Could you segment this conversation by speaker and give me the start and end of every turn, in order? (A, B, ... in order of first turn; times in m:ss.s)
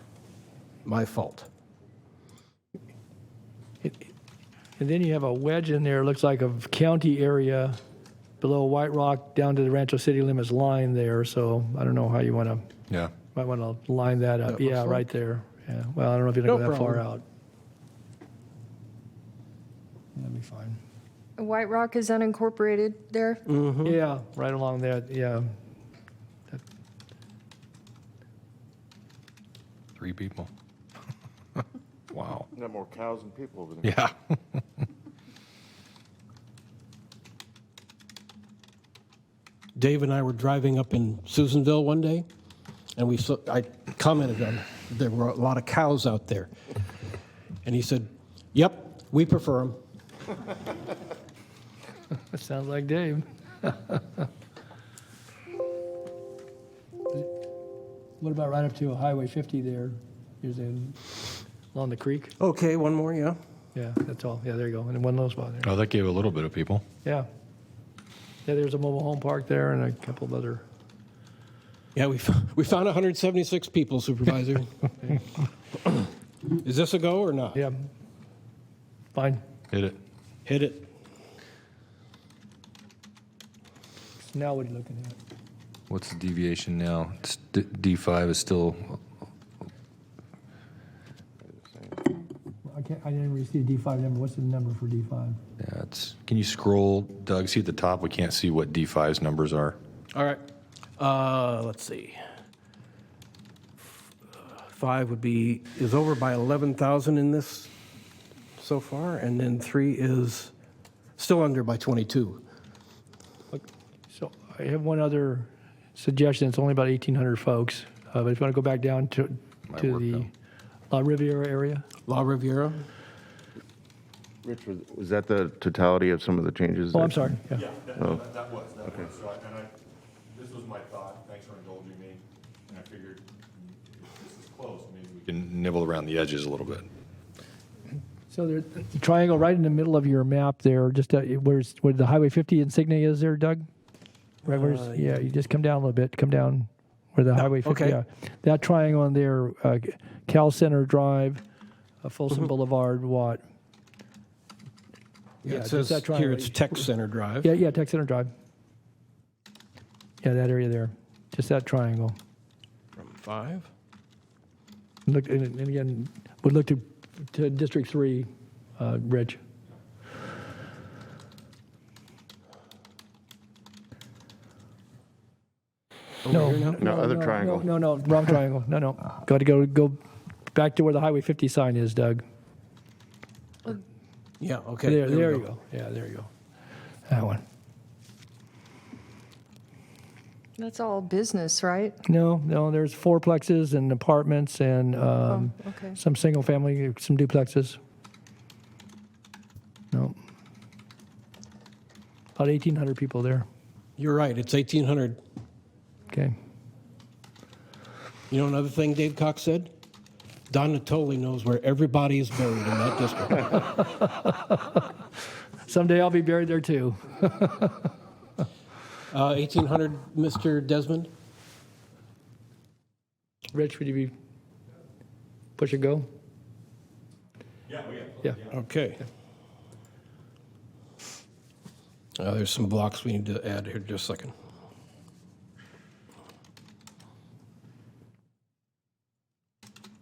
0:00.8-0:01.5 A
0:04.8-0:07.8 B
0:08.4-0:12.6 B
0:13.3-0:17.2 B
0:14.5-0:15.0 A
0:16.4-0:17.0 A
0:20.2-0:20.8 B
0:21.4-0:23.4 C
0:23.5-0:24.0 A
0:23.8-0:25.5 B
0:30.0-0:30.5 D
0:32.1-0:32.5 D
0:32.6-0:33.9 E
0:33.8-0:34.4 D
0:39.8-0:42.3 A
0:43.0-0:46.5 A
0:47.6-0:49.8 A
0:52.3-0:54.2 B
0:58.2-1:01.0 B
1:01.7-1:02.4 B
1:02.4-1:03.4 A
1:03.8-1:05.8 B
1:05.6-1:06.8 D
1:08.4-1:10.6 B
1:12.0-1:15.2 A
1:15.8-1:17.6 A
1:17.6-1:17.8 B
1:19.1-1:19.4 B
1:19.7-1:20.0 D
1:20.5-1:20.9 A
1:24.2-1:25.2 B
1:25.9-1:29.0 D
1:31.5-1:32.0 E
1:32.6-1:35.4 B
1:35.6-1:39.8 D
1:40.1-1:40.4 A
1:41.0-1:42.2 A
1:44.4-1:47.7 A
1:48.6-1:50.5 A
1:51.2-1:52.4 A
1:53.5-2:00.3 B
1:59.7-2:00.3 D
2:00.9-2:01.9 B
2:02.1-2:02.9 A
2:04.4-2:07.2 E
2:06.9-2:07.7 B
2:07.5-2:09.7 F
2:10.3-2:15.3 F
2:15.3-2:16.9 D
2:18.3-2:23.7 B
2:24.4-2:25.2 A
2:24.4-2:31.4 B
2:27.5-2:28.0 A
2:32.0-2:33.4 B
2:35.4-2:37.5 A
2:35.5-2:36.9 B
2:37.4-2:38.3 B
2:40.2-2:42.2 B
2:43.0-2:43.7 A
2:45.1-2:48.3 B
2:48.8-2:49.4 B
2:56.2-2:56.8 A
2:56.3-3:02.2 B
2:56.8-2:57.7 E
3:04.4-3:05.5 A
3:04.8-3:06.3 B
3:07.1-3:07.4 B
3:10.6-3:12.0 C
3:12.0-3:17.8 B
3:15.3-3:16.0 C
3:22.4-3:23.5 B
3:24.0-3:25.2 A
3:28.3-3:29.7 A
3:30.5-3:33.8 A
3:33.8-3:34.8 B
3:35.6-3:37.9 B
3:39.1-3:41.1 A
3:43.5-3:44.1 B
3:45.6-3:46.1 B
3:47.7-3:48.5 F
3:48.5-3:49.0 A
3:52.2-3:54.3 A